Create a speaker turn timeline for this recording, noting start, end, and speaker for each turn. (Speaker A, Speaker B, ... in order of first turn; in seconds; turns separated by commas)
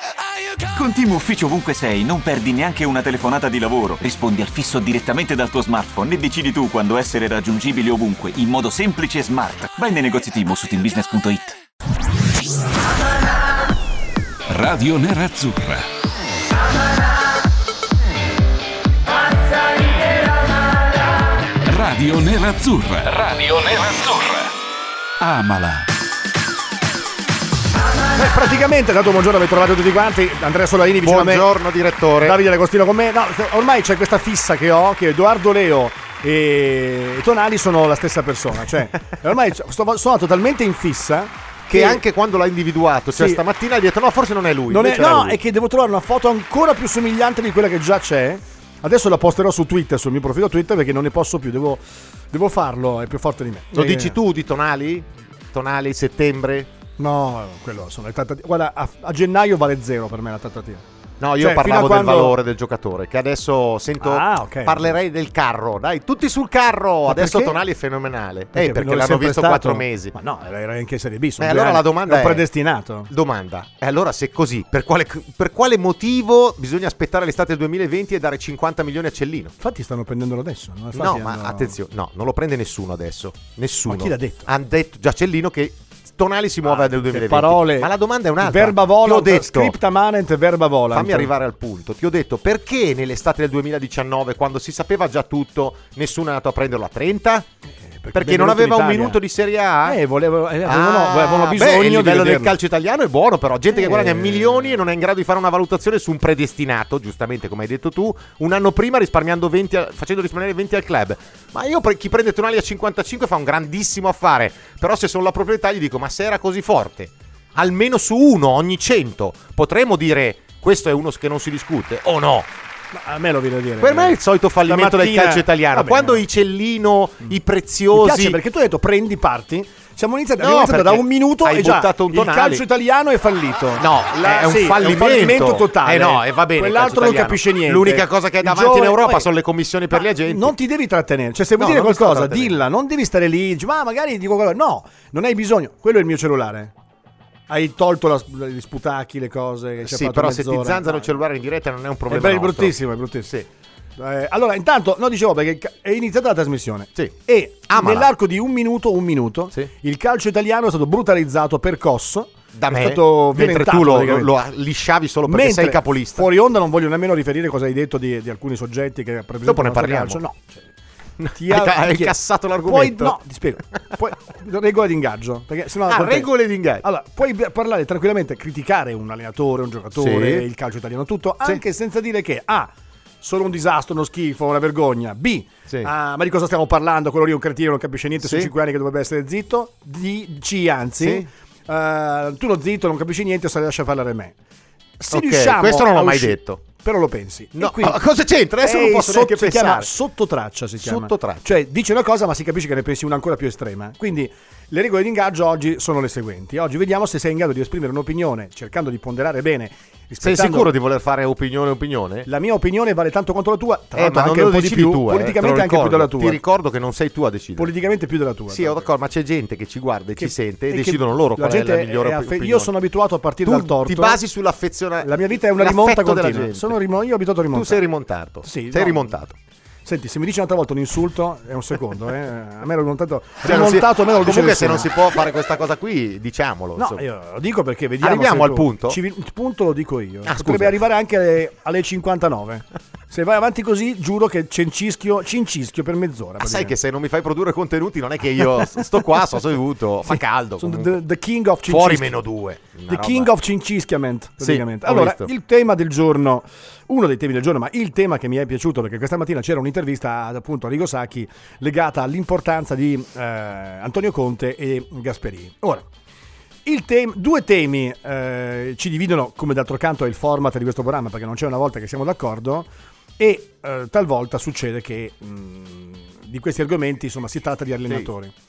Speaker A: 0.6-11.6, Speaker B: 14.5-15.8, Speaker B: 21.6-23.3, Speaker A: 23.2-24.5, Speaker B: 25.2-25.9, Speaker C: 28.1-31.5, Speaker D: 31.0-32.4, Speaker C: 32.2-42.0, Speaker D: 41.7-45.4, Speaker C: 43.1-43.4, Speaker C: 44.7-54.2, Speaker D: 53.7-56.7, Speaker C: 57.0-60.8, Speaker D: 61.2-70.1, Speaker C: 61.4-62.4, Speaker C: 64.0-64.9, Speaker C: 67.1-67.6, Speaker C: 68.5-73.1, Speaker D: 71.4-72.5, Speaker D: 73.1-79.5, Speaker C: 79.6-81.7, Speaker D: 80.9-89.8, Speaker C: 83.8-84.5, Speaker C: 86.8-91.3, Speaker D: 90.9-97.5, Speaker C: 97.8-99.2, Speaker D: 98.1-100.0, Speaker C: 99.8-102.5, Speaker D: 100.6-122.5, Speaker C: 103.7-104.7, Speaker C: 122.9-126.2, Speaker D: 123.8-128.4, Speaker C: 127.9-139.3, Speaker D: 130.4-132.6, Speaker D: 133.8-140.6, Speaker C: 140.2-146.7, Speaker D: 141.6-142.6, Speaker C: 147.5-151.1, Speaker D: 149.8-153.4, Speaker C: 152.1-153.4, Speaker C: 154.0-164.3, Speaker D: 157.7-158.1, Speaker D: 162.5-166.3, Speaker C: 165.3-170.6, Speaker D: 169.4-170.2, Speaker D: 171.2-173.2, Speaker C: 171.3-176.3, Speaker D: 175.8-176.8, Speaker C: 176.8-182.7, Speaker D: 179.9-180.4, Speaker C: 183.2-194.3, Speaker D: 188.2-188.5, Speaker D: 191.0-191.3, Speaker C: 195.0-198.0, Speaker D: 195.1-196.6, Speaker D: 197.6-199.9, Speaker C: 198.6-210.7, Speaker D: 200.8-201.5, Speaker D: 210.2-212.3, Speaker C: 212.2-216.4, Speaker D: 213.9-217.7, Speaker C: 217.6-218.8, Speaker D: 218.5-222.7, Speaker C: 220.2-224.2, Speaker D: 223.4-226.8, Speaker C: 225.0-227.8, Speaker D: 227.5-229.3, Speaker C: 228.4-229.1, Speaker C: 229.8-234.9, Speaker D: 233.4-237.0, Speaker C: 236.8-246.7, Speaker D: 238.0-239.0, Speaker D: 240.2-240.8, Speaker D: 246.4-251.0, Speaker C: 250.1-252.2, Speaker D: 251.7-253.3, Speaker C: 252.9-265.8, Speaker D: 254.4-255.3, Speaker C: 266.6-272.7, Speaker C: 273.2-278.3